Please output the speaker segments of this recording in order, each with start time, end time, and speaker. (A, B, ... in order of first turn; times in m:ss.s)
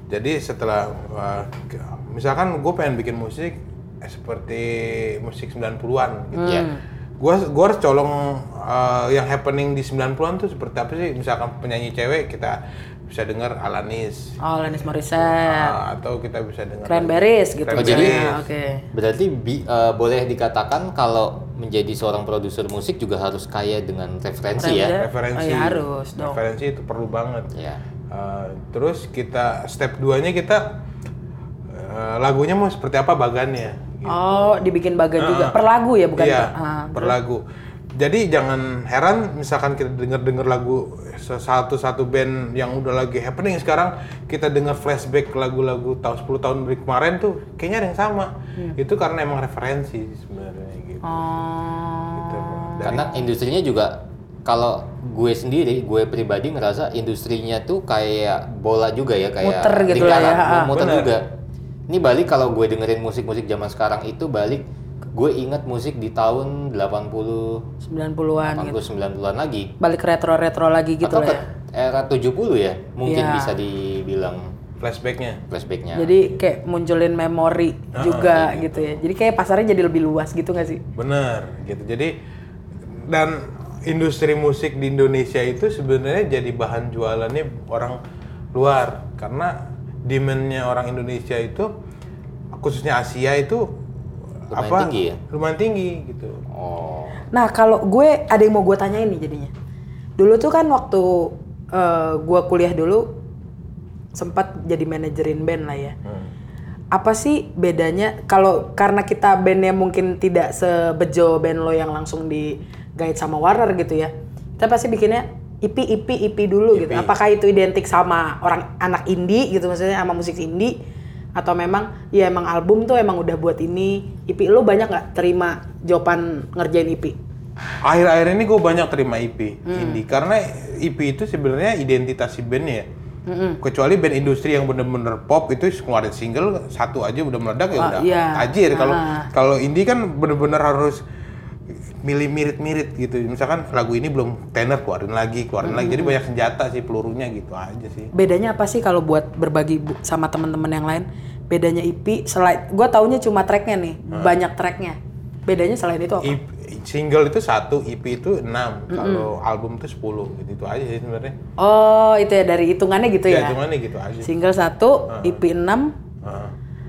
0:00.1-0:06.6 A
0:06.4-0:06.8 B
0:07.2-0:18.4 A
0:14.4-0:15.8 B
0:16.9-0:18.9 B
0:17.8-0:18.3 C
0:18.9-0:25.0 C
0:24.6-0:26.4 B
0:24.9-0:27.5 A
0:27.5-0:27.8 C
0:28.1-0:30.8 A
0:31.7-0:34.7 A
0:34.1-0:37.2 B
0:35.2-0:35.6 A
0:36.2-0:37.4 A
0:38.0-0:51.2 A
0:51.0-0:53.1 B
0:52.2-0:53.2 A
0:52.8-1:01.3 C
0:59.4-1:00.7 B
1:00.7-1:01.2 A
1:01.9-1:07.7 C
1:07.8-1:08.8 B
1:08.5-1:09.7 C
1:09.8-1:11.4 B
1:11.0-1:14.5 C
1:13.1-1:13.6 B
1:14.8-1:15.4 A
1:15.5-1:16.2 C
1:16.0-1:20.8 B
1:17.9-1:18.6 A
1:18.4-1:19.0 C
1:21.0-1:22.2 A
1:23.0-1:28.0 A
1:28.5-1:31.7 A
1:32.5-1:33.7 A
1:34.5-1:36.4 A
1:34.5-1:35.2 C
1:36.5-1:37.2 C
1:37.3-1:39.5 B
1:40.2-1:43.1 B
1:44.1-1:46.0 B
1:46.9-2:00.8 B
1:56.7-1:57.1 A
2:01.4-2:07.2 B
2:07.8-2:12.9 A
2:09.7-2:10.0 B
2:13.3-2:13.6 B
2:13.6-2:21.0 A
2:17.8-2:19.3 B
2:22.0-2:28.1 A
2:25.6-2:26.2 B
2:28.1-2:36.4 B
2:34.1-2:34.4 A
2:36.2-2:41.4 A
2:38.9-2:39.3 B
2:41.6-2:43.6 B
2:43.3-2:44.3 A
2:44.2-2:45.9 B
2:45.1-2:45.4 A
2:46.2-2:46.5 A